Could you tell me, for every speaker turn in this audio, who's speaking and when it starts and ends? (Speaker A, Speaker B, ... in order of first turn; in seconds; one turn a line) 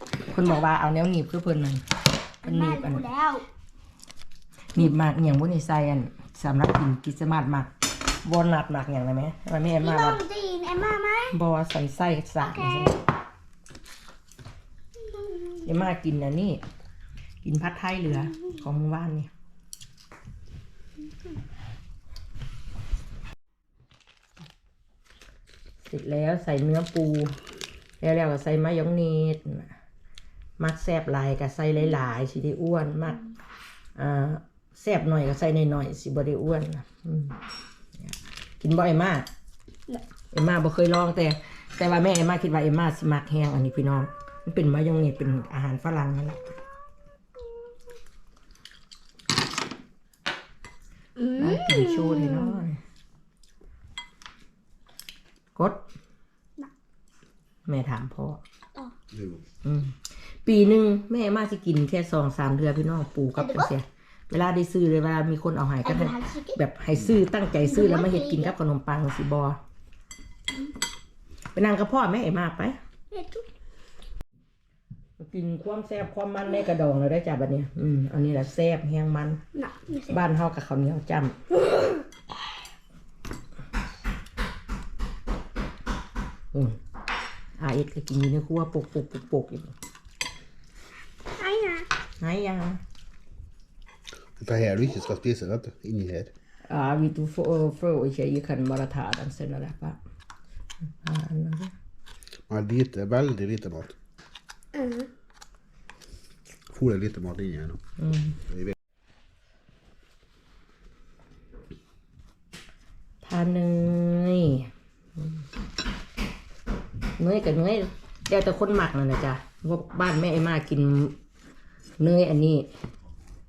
Speaker A: 0.3-1.8
Speaker A: 2.4-3.0
Speaker B: 2.4-3.5
Speaker A: 4.7-7.7
Speaker A: 8.2-10.2
Speaker B: 9.8-11.3
Speaker A: 11.3-13.0
Speaker B: 12.4-13.0
Speaker B: 15.0-15.7
Speaker A: 15.6-16.6
Speaker A: 17.4-19.3
Speaker A: 25.8-27.4
Speaker A: 28.0-29.7
Speaker A: 30.6-33.2
Speaker A: 34.0-37.4
Speaker A: 38.0-39.3
Speaker A: 40.3-46.5
Speaker B: 51.2-52.6
Speaker A: 51.4-52.8
Speaker A: 55.5-55.8
Speaker A: 57.6-58.4
Speaker A: 59.6-69.6
Speaker B: 63.4-63.7
Speaker B: 65.8-66.6
Speaker B: 67.6-68.5
Speaker A: 71.5-72.8
Speaker B: 73.1-73.5
Speaker A: 75.2-79.4
Speaker B: 79.5-80.2
Speaker A: 80.1-81.4
Speaker A: 86.5-86.8
Speaker A: 87.6-89.7
Speaker B: 91.4-91.9
Speaker A: 92.2-92.8
Speaker C: 94.4-96.3
Speaker A: 96.7-100.0
Speaker A: 101.0-101.7
Speaker C: 102.5-104.0
Speaker B: 104.7-105.1
Speaker C: 106.7-107.8
Speaker A: 108.0-108.4
Speaker A: 113.2-115.4
Speaker A: 117.2-121.2
Speaker A: 122.0-122.7